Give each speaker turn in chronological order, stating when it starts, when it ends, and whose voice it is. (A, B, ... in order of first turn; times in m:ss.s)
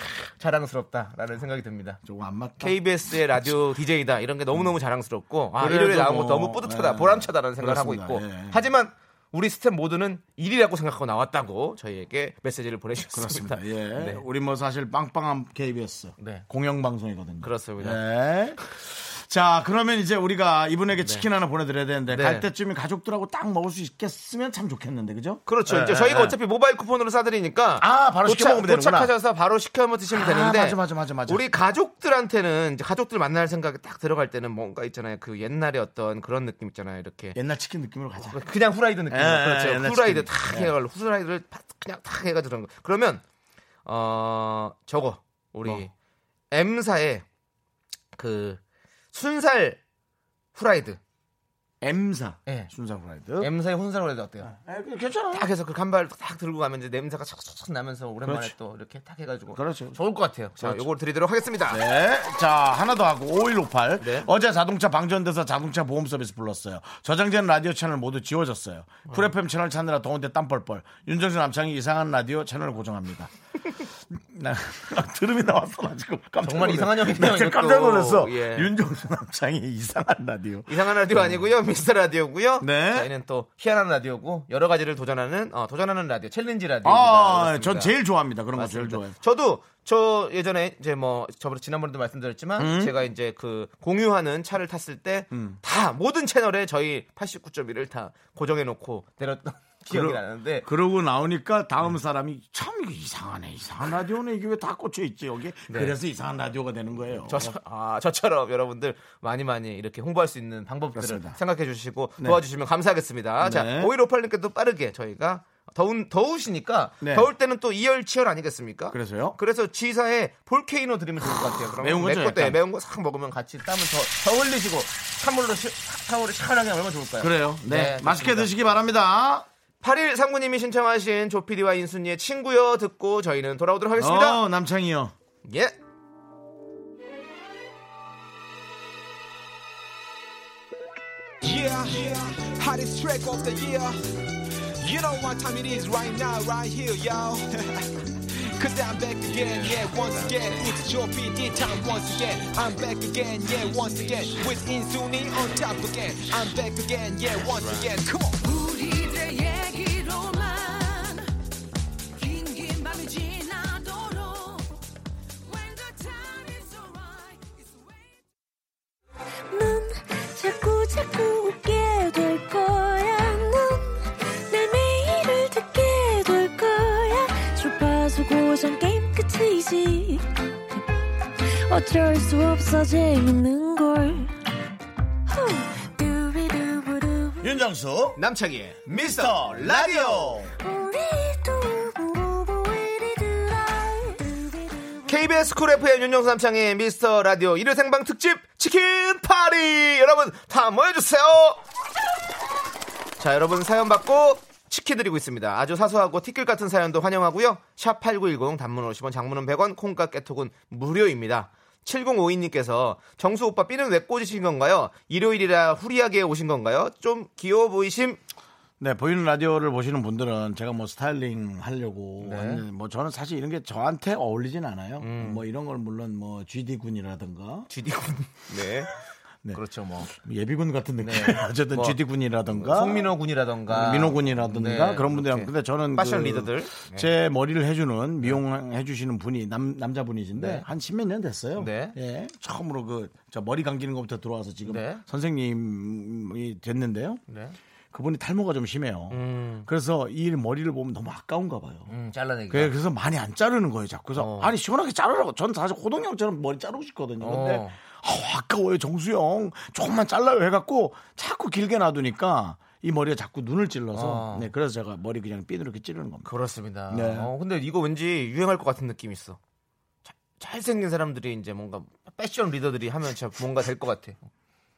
0:00.4-0:02.0 A
0:02.0-0:02.8 B
0:02.6-0:14.2 A
0:05.6-0:08.6 B
0:13.1-0:26.4 B
0:16.2-0:16.4 A
0:17.4-0:18.0 A
0:22.1-0:22.5 A
0:25.5-0:37.4 A
0:27.8-0:29.1 B
0:30.1-0:31.4 B
0:37.3-0:38.4 B
0:38.2-0:43.2 A
0:39.1-0:40.7 B
0:43.8-0:45.9 A
0:46.5-0:47.2 A
0:48.1-0:48.6 A
0:49.1-0:49.8 A
0:50.5-0:51.0 A
0:51.8-0:53.5 B
0:53.4-0:54.5 A
0:54.4-0:55.5 B
0:55.3-1:01.8 A
0:58.2-0:58.5 B
0:59.5-1:00.0 B
1:00.6-1:00.9 B
1:01.7-1:13.3 B
1:04.0-1:04.3 A
1:14.1-1:21.4 B
1:16.4-1:18.7 A
1:20.7-1:27.9 A
1:22.6-1:23.1 B
1:26.8-1:29.2 B
1:28.5-1:40.7 A
1:32.6-1:32.9 B
1:35.3-1:35.6 B
1:39.9-1:47.5 B
1:45.7-1:46.0 A
1:47.3-2:08.5 A
1:50.9-1:51.4 B
1:53.4-1:53.9 B
1:57.0-1:57.3 B
1:58.9-1:59.4 B
2:01.8-2:02.6 B
2:07.2-2:09.4 B
2:09.8-2:14.4 A
2:14.0-2:15.1 B
2:15.4-2:15.7 A
2:21.4-2:24.1 C
2:24.8-2:38.6 C
2:40.4-2:40.9 D
2:49.5-3:00.8 D
3:01.4-3:04.3 D
3:05.3-3:07.5 D
3:07.4-3:08.2 B
3:08.2-3:10.4 A
3:08.9-3:10.5 B
3:10.6-3:15.2 D
3:15.1-3:21.6 A
3:23.2-3:38.2 A
3:38.8-3:47.7 B
3:42.2-3:42.6 A
3:45.0-3:45.4 A
3:47.7-3:48.9 A
3:49.4-4:07.2 B
3:49.5-3:50.1 A
3:51.0-3:52.0 A
3:52.5-3:57.1 A
4:00.4-4:00.7 A
4:01.6-4:02.0 A
4:04.6-4:05.0 A
4:07.3-4:07.6 A
4:07.9-4:11.9 B
4:09.1-4:09.7 A
4:11.9-4:12.7 A
4:12.5-4:26.3 B
4:14.2-4:14.5 A
4:17.2-4:17.8 A
4:23.9-4:24.5 A
4:26.2-4:29.4 A
4:26.9-4:27.3 B
4:30.1-4:34.2 A